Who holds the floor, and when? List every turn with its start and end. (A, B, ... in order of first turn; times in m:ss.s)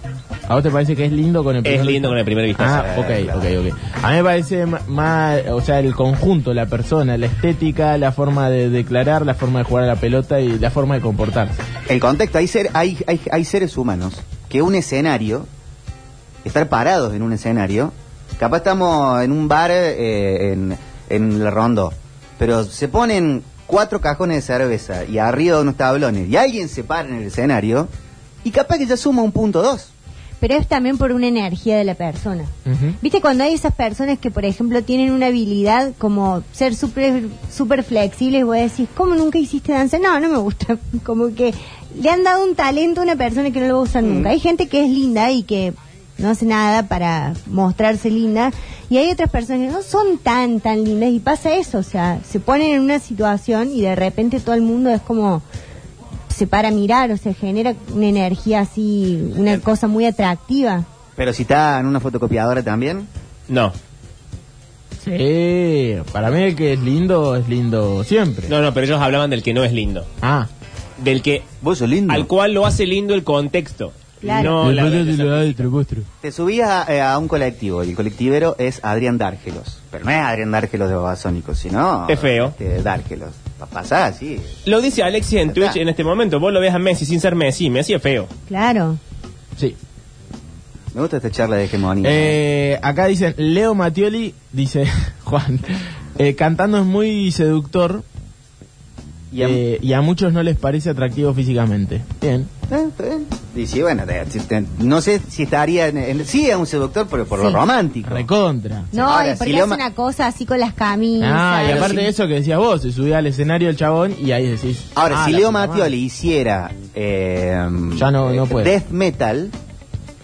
0:00.5-0:11.6 A
0:01.6-0:03.0 B
0:02.7-0:03.5 C
0:11.9-0:15.5 C
0:16.4-0:27.9 C
0:28.4-0:29.9 C
0:30.4-0:55.4 D
0:32.6-0:33.0 A
0:44.0-0:44.3 C
0:56.3-1:00.9 D
1:01.2-1:03.1 C
1:03.5-1:03.7 B
1:05.0-1:08.5 A
1:08.5-1:10.1 B
1:10.2-1:10.5 A
1:11.0-1:11.5 B
1:11.6-1:12.3 C
1:12.1-1:15.7 B
1:14.2-1:14.6 D
1:14.3-1:16.1 A
1:16.2-1:24.5 C
1:22.1-1:22.5 B
1:24.6-1:28.3 B
1:25.4-1:25.8 C
1:28.5-1:29.0 D
1:30.9-1:32.4 C
1:32.0-1:38.0 A
1:39.3-1:39.6 C
1:39.4-1:42.5 A
1:42.7-1:48.2 C
1:47.4-1:47.6 D
1:48.0-1:48.9 A
1:48.9-1:52.1 D
1:48.9-1:49.8 C
1:51.2-1:56.0 A
1:51.6-1:52.1 C
1:54.9-1:59.5 C
1:58.0-1:58.8 A